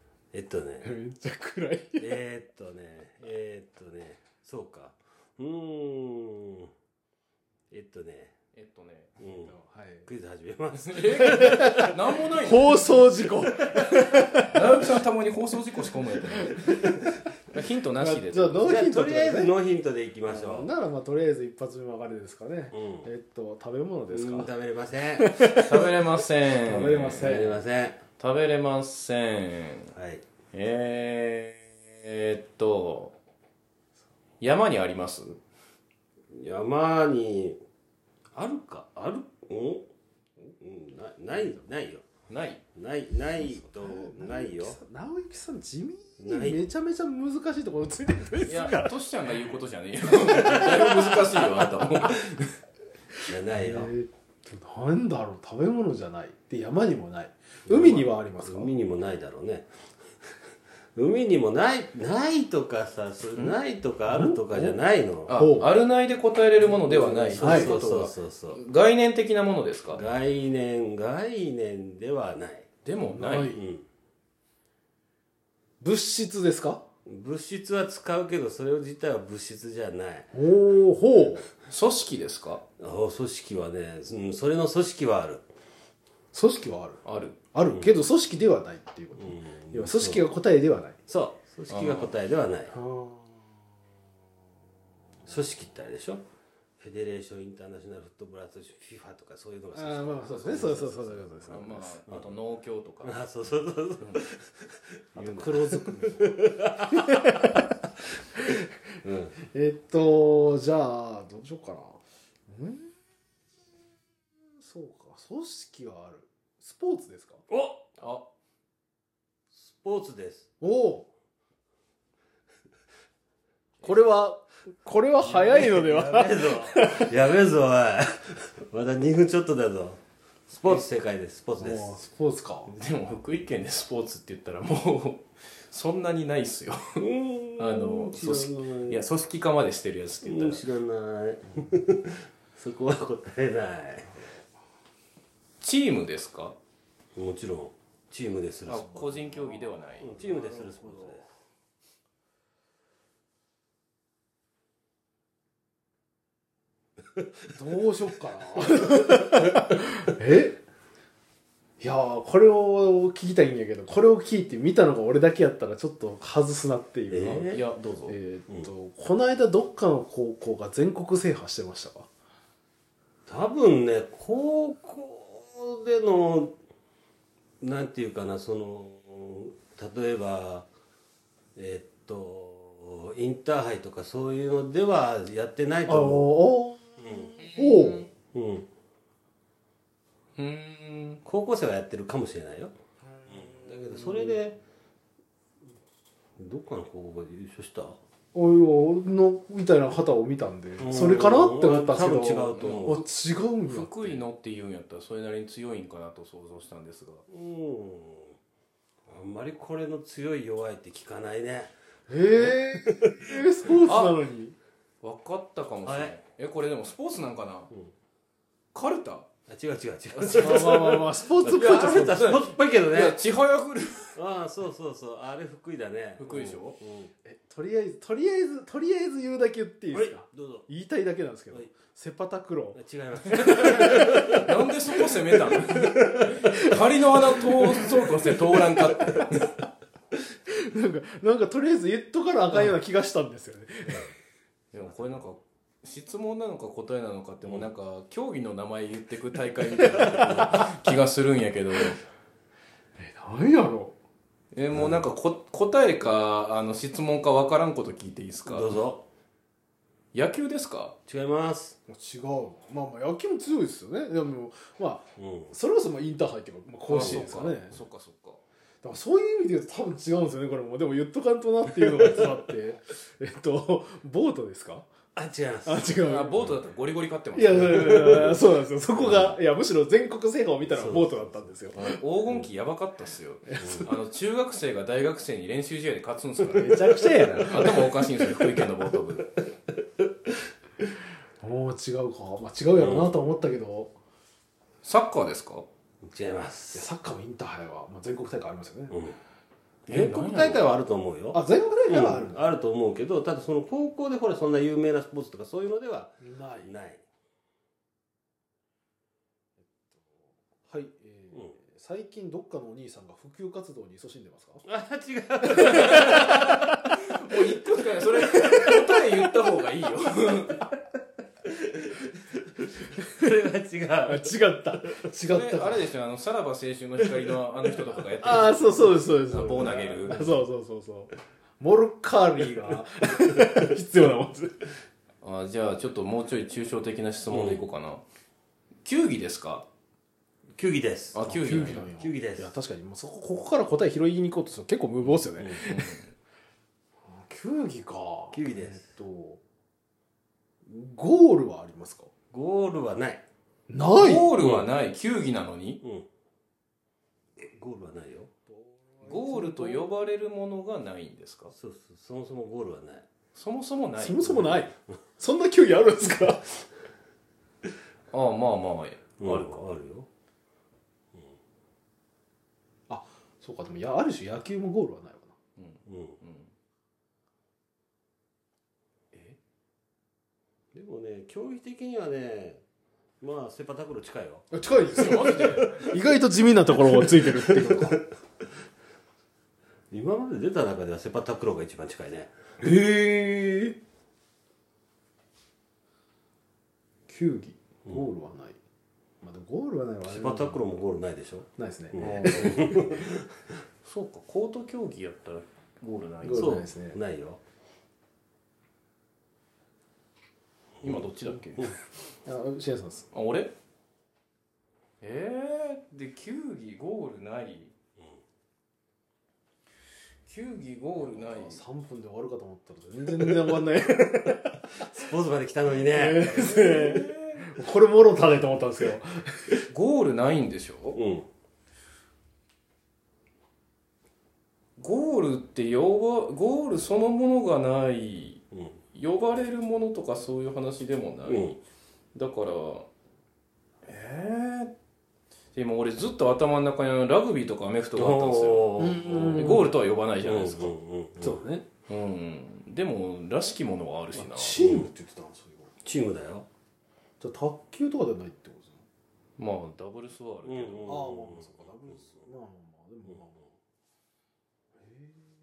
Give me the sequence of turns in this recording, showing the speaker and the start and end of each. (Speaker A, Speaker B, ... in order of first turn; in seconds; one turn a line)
Speaker A: 0.3-0.9
Speaker B: 0.8-2.2
Speaker A: 2.0-6.7
Speaker A: 7.7-8.3
Speaker C: 8.5-9.1
Speaker A: 9.2-9.5
Speaker B: 9.2-10.1
Speaker A: 10.0-11.9
Speaker C: 10.8-13.0
Speaker B: 11.2-14.9
Speaker C: 14.4-16.8
Speaker B: 16.2-17.1
Speaker C: 17.5-18.7
Speaker B: 18.0-19.5
Speaker A: 18.6-20.7
Speaker B: 20.3-24.5
Speaker A: 22.7-23.1
Speaker A: 24.1-25.5
Speaker B: 25.2-27.6
Speaker C: 25.6-27.4
Speaker A: 27.1-28.0
Speaker C: 28.2-29.9
Speaker A: 29.9-30.2
Speaker C: 30.5-33.1
Speaker C: 34.4-35.4
Speaker A: 36.3-37.6
Speaker A: 38.3-39.9
Speaker A: 40.6-42.0
Speaker B: 41.3-41.6
Speaker C: 42.3-42.6
Speaker A: 42.7-44.8
Speaker B: 43.4-49.0
Speaker A: 46.2-46.6
Speaker C: 48.4-52.5
Speaker B: 50.2-51.1
Speaker A: 53.3-53.9
Speaker B: 53.5-58.7
Speaker A: 57.6-59.7
Speaker A: 60.9-65.3
Speaker B: 64.1-64.8
Speaker C: 65.3-70.1
Speaker B: 65.3-65.7
Speaker A: 66.6-68.6
Speaker B: 67.4-67.7
Speaker A: 69.9-72.7
Speaker C: 72.8-73.6
Speaker B: 73.1-73.6
Speaker A: 73.5-73.8
Speaker B: 75.8-76.8
Speaker A: 77.0-80.3
Speaker B: 80.3-81.5
Speaker C: 81.7-82.6
Speaker A: 82.8-85.4
Speaker B: 86.3-87.0
Speaker C: 87.0-87.4
Speaker B: 87.5-91.0
Speaker A: 87.7-88.0
Speaker A: 89.2-90.3
Speaker A: 91.1-92.7
Speaker C: 91.7-92.1
Speaker B: 92.7-93.7
Speaker A: 95.2-96.2
Speaker A: 96.8-102.4
Speaker B: 99.7-101.9
Speaker C: 101.5-103.2
Speaker A: 103.0-107.3
Speaker C: 104.0-104.3
Speaker B: 105.2-107.7
Speaker A: 109.0-109.3
Speaker B: 109.5-112.9
Speaker B: 114.6-117.4
Speaker A: 117.5-117.9
Speaker C: 118.0-118.2
Speaker A: 119.5-120.5
Speaker B: 120.6-121.1
Speaker B: 123.8-127.1
Speaker A: 125.2-132.0
Speaker B: 131.6-132.7
Speaker C: 132.7-137.0
Speaker A: 137.0-139.0
Speaker C: 137.6-140.6
Speaker A: 140.2-144.2
Speaker C: 145.6-146.6
Speaker A: 147.2-149.2
Speaker C: 148.7-150.1
Speaker B: 149.1-151.3
Speaker A: 150.0-151.4
Speaker B: 157.5-160.6
Speaker B: 161.8-172.1
Speaker A: 167.1-167.6
Speaker C: 167.5-168.2
Speaker A: 173.3-176.5
Speaker A: 177.6-180.7
Speaker A: 181.5-186.3
Speaker B: 185.8-188.1
Speaker A: 187.0-187.3
Speaker C: 187.4-188.0
Speaker A: 188.3-188.7
Speaker C: 190.4-191.2
Speaker A: 191.2-192.7
Speaker A: 193.3-194.6
Speaker A: 196.4-198.0
Speaker B: 198.3-204.1
Speaker A: 200.8-203.0
Speaker C: 202.6-202.9
Speaker C: 203.6-207.2
Speaker A: 207.3-208.4
Speaker A: 209.1-211.7
Speaker B: 212.1-214.5
Speaker A: 212.3-213.4
Speaker C: 213.8-214.2
Speaker C: 215.0-217.7
Speaker A: 215.8-216.2
Speaker C: 218.7-219.3
Speaker A: 219.5-223.2
Speaker B: 220.2-222.2
Speaker C: 221.3-224.2
Speaker A: 224.1-227.1
Speaker C: 226.2-226.8
Speaker B: 227.2-234.3
Speaker A: 229.9-230.7
Speaker A: 232.7-236.4
Speaker C: 233.5-239.6
Speaker B: 238.9-239.2
Speaker B: 240.5-244.1
Speaker C: 244.7-252.0
Speaker A: 244.8-245.2
Speaker B: 249.7-250.8
Speaker B: 253.0-253.9
Speaker C: 254.5-258.8
Speaker A: 254.7-255.0
Speaker A: 258.4-259.0
Speaker C: 260.1-260.9
Speaker A: 261.1-261.8
Speaker B: 261.9-267.8
Speaker A: 265.2-265.5
Speaker C: 266.9-268.4
Speaker B: 268.8-274.9
Speaker A: 275.1-276.0
Speaker B: 275.6-276.6
Speaker C: 275.9-278.4
Speaker B: 277.3-282.0
Speaker A: 277.6-278.4
Speaker A: 278.9-279.4
Speaker A: 280.6-281.7
Speaker C: 281.7-289.4
Speaker B: 283.5-283.9
Speaker A: 283.6-283.9
Speaker B: 286.4-288.4
Speaker B: 291.4-293.9
Speaker A: 292.7-293.2
Speaker C: 294.8-295.6
Speaker A: 296.0-296.9
Speaker B: 296.7-298.9
Speaker A: 298.9-299.2
Speaker C: 299.9-300.6
Speaker A: 299.9-307.0
Speaker B: 301.3-302.5
Speaker B: 306.2-306.7
Speaker B: 309.9-314.6
Speaker A: 314.6-316.4
Speaker B: 315.5-316.7
Speaker C: 315.6-320.7
Speaker A: 321.5-324.3
Speaker B: 324.1-325.9
Speaker C: 325.2-330.3
Speaker B: 328.2-334.7
Speaker C: 335.2-338.0
Speaker A: 337.3-337.6
Speaker C: 338.8-339.6
Speaker A: 340.6-342.5
Speaker C: 341.1-341.9
Speaker B: 341.2-346.0
Speaker A: 345.4-345.6
Speaker C: 345.5-346.1
Speaker B: 347.0-349.4
Speaker A: 348.3-348.9
Speaker B: 350.6-352.1
Speaker A: 352.3-353.2
Speaker B: 353.7-354.4
Speaker C: 353.9-355.8
Speaker A: 354.4-354.7
Speaker A: 355.8-356.1
Speaker A: 357.4-358.3
Speaker B: 358.5-360.0
Speaker C: 359.0-361.5
Speaker A: 361.5-363.1
Speaker C: 363.3-364.5
Speaker B: 364.0-366.6
Speaker C: 368.1-369.5
Speaker A: 369.2-370.1
Speaker B: 372.9-375.3
Speaker C: 375.6-376.5
Speaker A: 375.9-376.2
Speaker C: 379.1-379.4
Speaker A: 380.7-382.6
Speaker A: 383.2-384.4
Speaker B: 384.5-388.0
Speaker C: 385.0-385.9
Speaker A: 386.8-387.9
Speaker A: 389.9-392.3
Speaker B: 392.6-393.8
Speaker B: 397.1-398.6
Speaker B: 399.2-400.6
Speaker A: 400.1-403.3
Speaker B: 401.6-402.9
Speaker C: 402.0-402.7
Speaker C: 403.8-406.6
Speaker B: 406.2-407.0
Speaker A: 406.3-407.4
Speaker C: 410.8-411.8
Speaker B: 412.2-413.1
Speaker C: 413.1-413.5
Speaker C: 415.0-417.7
Speaker C: 420.3-421.6
Speaker B: 421.0-424.6
Speaker A: 424.7-426.4
Speaker B: 425.9-429.6
Speaker C: 426.2-427.5
Speaker C: 429.7-431.0
Speaker A: 430.9-431.3
Speaker C: 434.8-438.4
Speaker A: 438.5-438.8
Speaker C: 438.9-441.5
Speaker A: 441.2-441.6
Speaker C: 442.1-442.9
Speaker C: 443.9-444.7
Speaker C: 445.5-450.7
Speaker A: 447.9-449.6
Speaker B: 448.8-449.7
Speaker A: 450.2-451.4
Speaker B: 451.2-451.6
Speaker C: 451.9-454.6
Speaker B: 454.1-455.7
Speaker A: 454.6-454.9
Speaker A: 455.8-456.5
Speaker B: 457.2-458.8
Speaker C: 459.4-461.0
Speaker A: 460.4-462.1
Speaker B: 460.9-463.4
Speaker B: 464.8-465.3